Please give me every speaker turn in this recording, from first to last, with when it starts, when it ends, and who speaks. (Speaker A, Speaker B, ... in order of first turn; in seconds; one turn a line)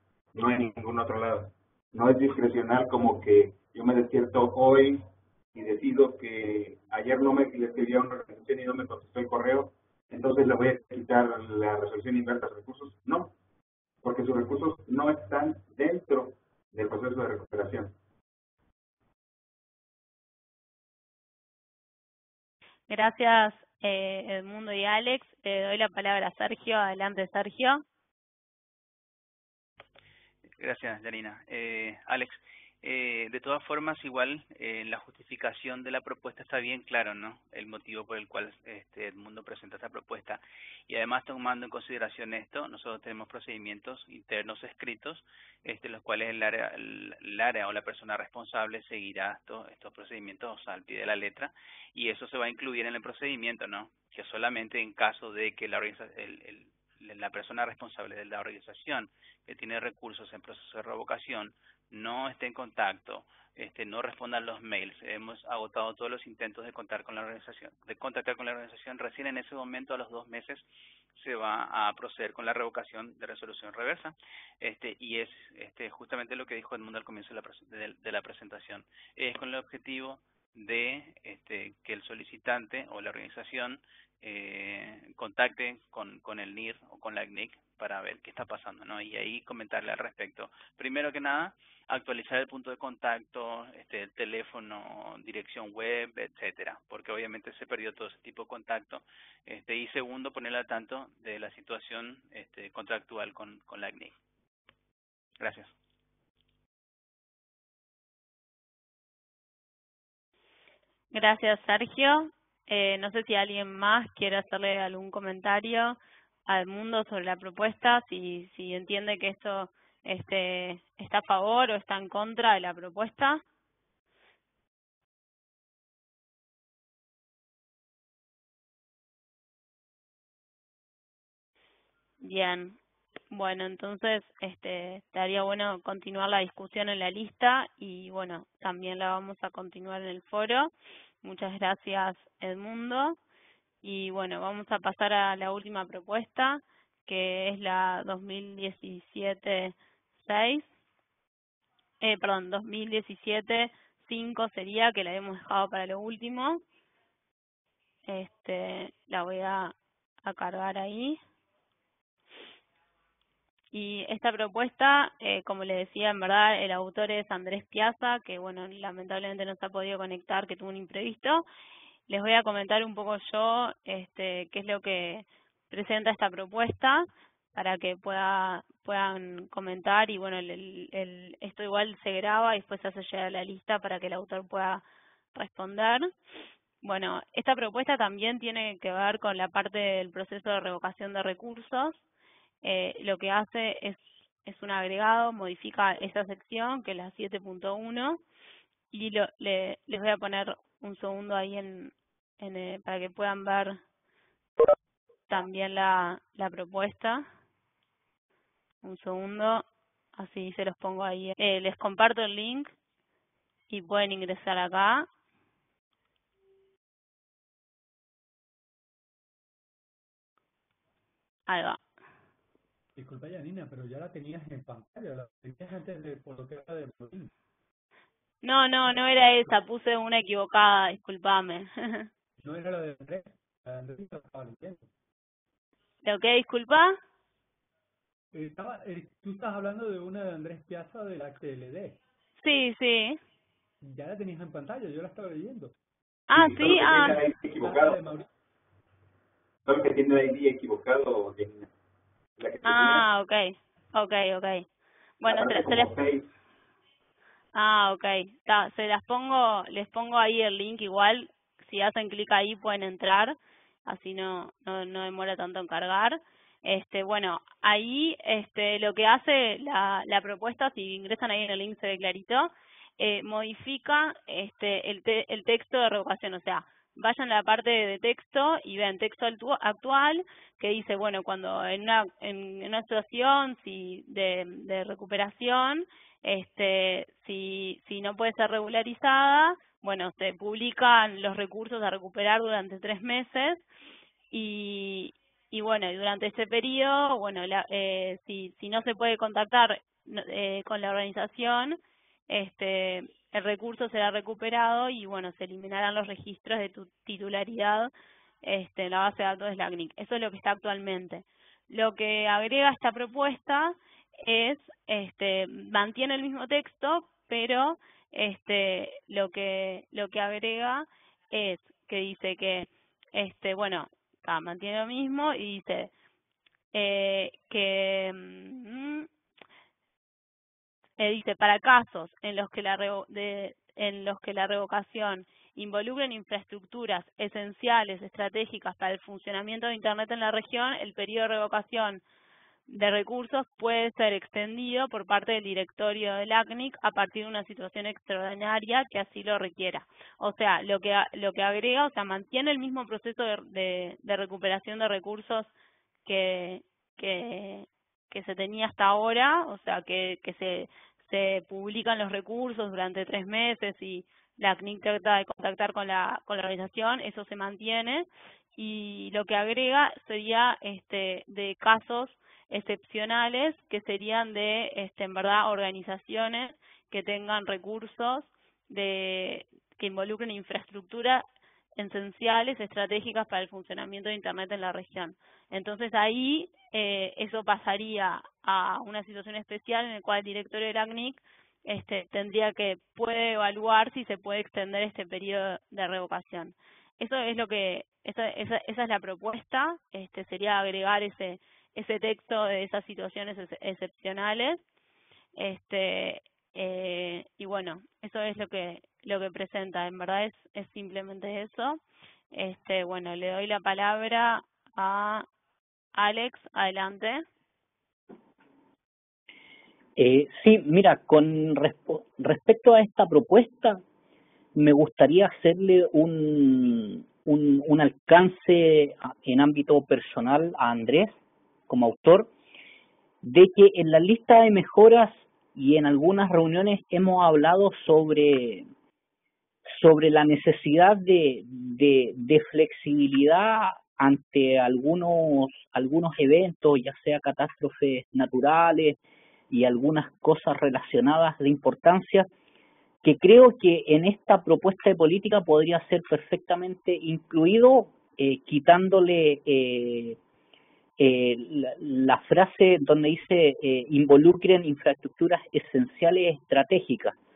Speaker A: 0.3-13.3
Speaker A: 14.0-17.9
Speaker B: 22.9-27.8
Speaker C: 30.6-104.2
Speaker C: 105.4-105.7
Speaker B: 111.1-123.4
Speaker B: 132.2-132.8
Speaker B: 133.3-140.7
Speaker B: 141.2-143.2
Speaker B: 143.8-150.7
Speaker B: 152.0-156.6
Speaker B: 158.1-161.2
Speaker B: 163.7-171.4
Speaker B: 172.1-184.8
Speaker B: 185.3-186.1
Speaker B: 186.8-192.0
Speaker B: 192.6-198.2
Speaker B: 198.9-203.8
Speaker B: 205.3-207.2
Speaker B: 208.8-209.6
Speaker B: 210.2-212.7
Speaker B: 213.7-215.1
Speaker B: 221.5-221.8
Speaker D: 222.9-227.3
Speaker B: 228.4-232.1
Speaker D: 232.4-234.8
Speaker B: 236.0-236.9
Speaker D: 238.3-242.0
Speaker B: 242.4-243.2
Speaker D: 243.8-245.7
Speaker B: 246.3-247.2
Speaker A: 246.3-248.0
Speaker D: 246.8-248.3
Speaker A: 249.7-251.7
Speaker A: 252.4-253.0
Speaker B: 252.6-254.7
Speaker B: 255.2-255.9
Speaker A: 255.3-256.3
Speaker B: 257.5-263.3
Speaker B: 263.9-293.6
Speaker B: 294.3-301.8
Speaker B: 302.3-307.9
Speaker B: 308.4-325.9
Speaker B: 326.7-329.1
Speaker B: 331.0-342.0
Speaker B: 342.7-355.5
Speaker B: 356.1-381.2
Speaker B: 381.8-404.6
Speaker B: 405.4-411.8
Speaker B: 412.3-415.2
Speaker B: 416.0-417.2
Speaker E: 420.0-423.8
Speaker E: 424.5-431.2
Speaker E: 431.7-432.3
Speaker E: 433.2-438.7
Speaker E: 439.7-449.0
Speaker E: 449.5-452.3
Speaker E: 453.0-460.2
Speaker E: 461.0-467.1